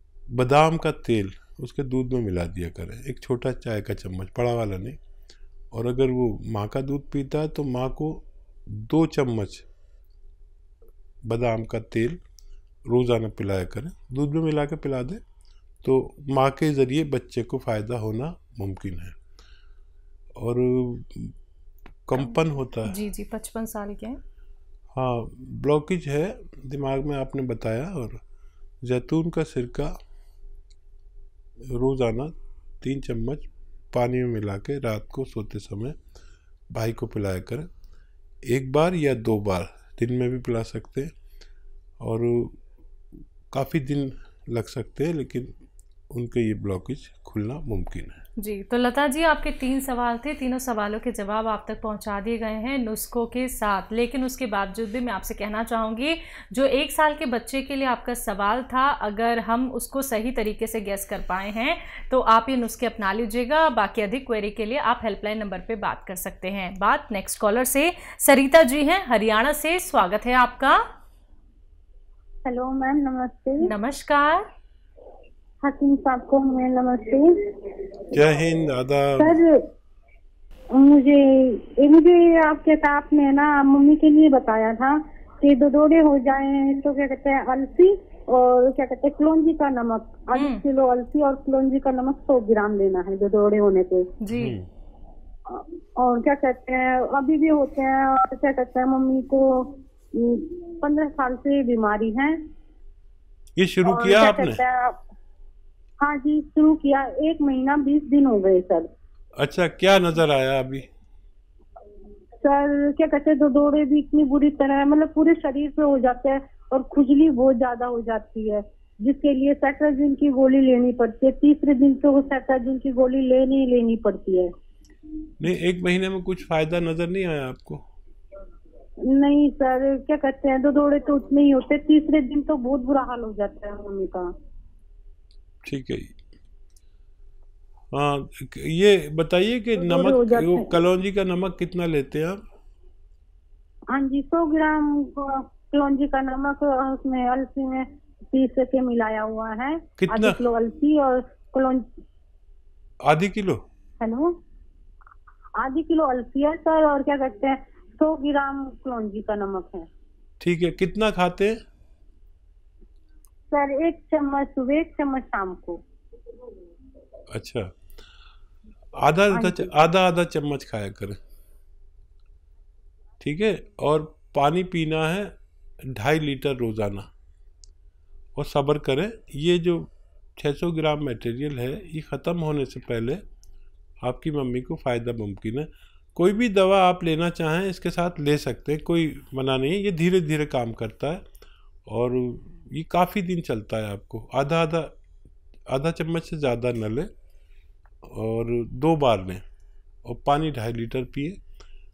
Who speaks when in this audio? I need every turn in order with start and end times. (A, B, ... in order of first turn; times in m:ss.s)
0:00.3-0:05.0 A
0:05.7-0:09.7 A
0:11.3-0:12.2 A
0:12.9-0:15.2 A
0:15.8-0:19.2 A
0:20.4-0:21.4 A
0:22.1-0:23.0 A
0:22.9-0:24.2 B
0:24.9-0:28.2 A
0:28.8-0:30.0 A
0:31.7-0:36.0 A
0:36.7-0:37.7 A
0:38.5-0:41.1 A
0:42.0-0:42.6 A
0:43.5-0:45.5 A
0:46.1-0:48.2 A
0:48.4-1:10.8 B
1:12.4-1:13.7 C
1:13.6-1:14.4 B
1:15.6-1:17.4 C
1:18.1-1:19.4 A
1:19.2-1:19.6 C
1:20.8-1:34.1 C
1:30.3-1:30.6 B
1:34.2-1:34.6 B
1:34.3-1:34.7 A
1:35.5-1:42.4 C
1:43.6-1:44.6 A
1:43.8-1:45.0 C
1:46.0-1:48.9 C
1:49.4-1:50.9 A
1:52.4-2:04.5 C
2:05.4-2:07.8 A
2:09.1-2:14.3 C
2:15.6-2:16.1 A
2:17.9-2:22.4 A
2:19.8-2:20.7 C
2:23.9-2:31.9 C
2:30.0-2:30.4 A
2:33.0-2:33.6 A
2:34.0-2:34.3 C
2:35.6-2:39.9 C
2:40.4-2:41.6 A
2:43.5-2:45.8 C
2:47.3-2:47.7 A
2:49.0-2:51.2 A
2:49.3-2:49.7 C
2:53.2-2:57.1 A
2:58.4-3:03.2 A
3:04.0-3:11.2 A
3:11.9-3:14.9 A
3:15.7-3:17.1 A
3:18.1-3:19.4 A
3:20.0-3:21.4 A